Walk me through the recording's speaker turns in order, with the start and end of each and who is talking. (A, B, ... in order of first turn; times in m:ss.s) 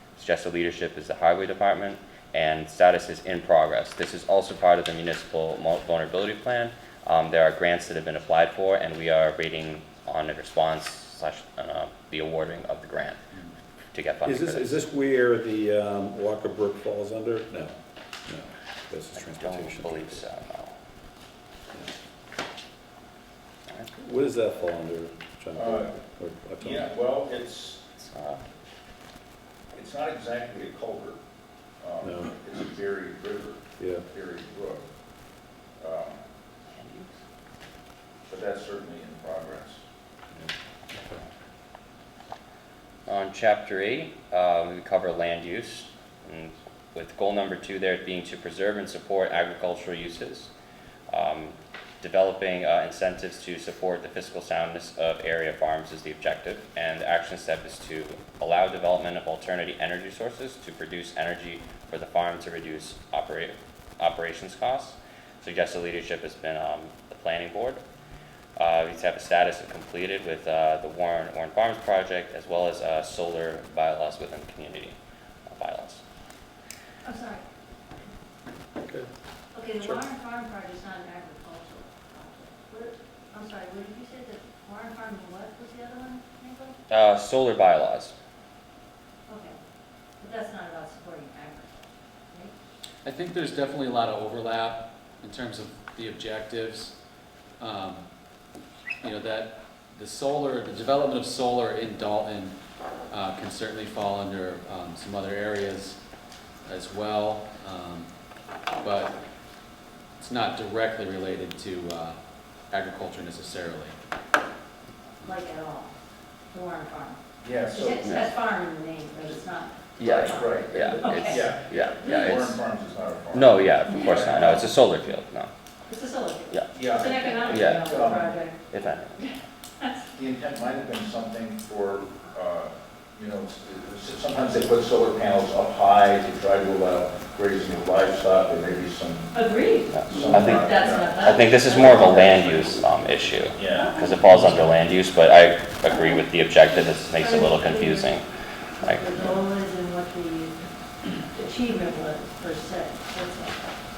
0:00.2-0:13.2 A
0:13.9-0:14.8 A
0:14.2-0:17.8 B
0:18.3-0:20.3 B
0:19.1-0:20.8 A
0:24.0-0:26.8 B
0:25.6-0:26.0 C
0:26.6-0:27.8 C
0:28.0-0:28.4 A
0:29.7-0:31.2 C
0:31.8-0:34.9 C
0:32.0-0:32.4 B
0:33.8-0:34.1 B
0:35.8-0:36.2 C
0:36.7-0:37.1 A
0:38.3-0:39.8 C
0:43.1-0:50.5 A
0:51.1-1:07.8 A
1:08.6-1:16.0 A
1:17.0-1:17.4 D
1:19.5-1:26.8 D
1:26.9-1:28.2 A
1:29.3-1:29.6 D
1:30.2-1:32.5 D
1:33.0-1:37.0 E
1:37.6-1:38.0 E
1:39.0-1:42.6 E
1:43.1-1:46.0 E
1:46.6-1:48.1 E
1:48.8-1:49.2 E
1:50.2-1:52.2 E
1:52.7-1:54.0 E
1:55.2-1:55.9 D
1:56.5-1:57.2 D
1:57.4-1:58.2 C
1:57.7-2:02.3 D
1:58.0-1:58.4 A
2:00.0-2:02.6 A
2:00.0-2:04.7 C
2:03.3-2:05.5 A
2:05.9-2:10.1 D
2:06.5-2:06.8 A
2:06.7-2:08.4 C
2:07.5-2:07.9 A
2:08.7-2:09.3 A
2:10.2-2:19.3 C
2:19.3-2:22.4 D
2:19.9-2:29.2 A
2:20.1-2:22.9 C
2:23.5-2:23.9 C
2:23.7-2:24.1 D
2:27.2-2:28.2 D
2:28.8-2:33.6 D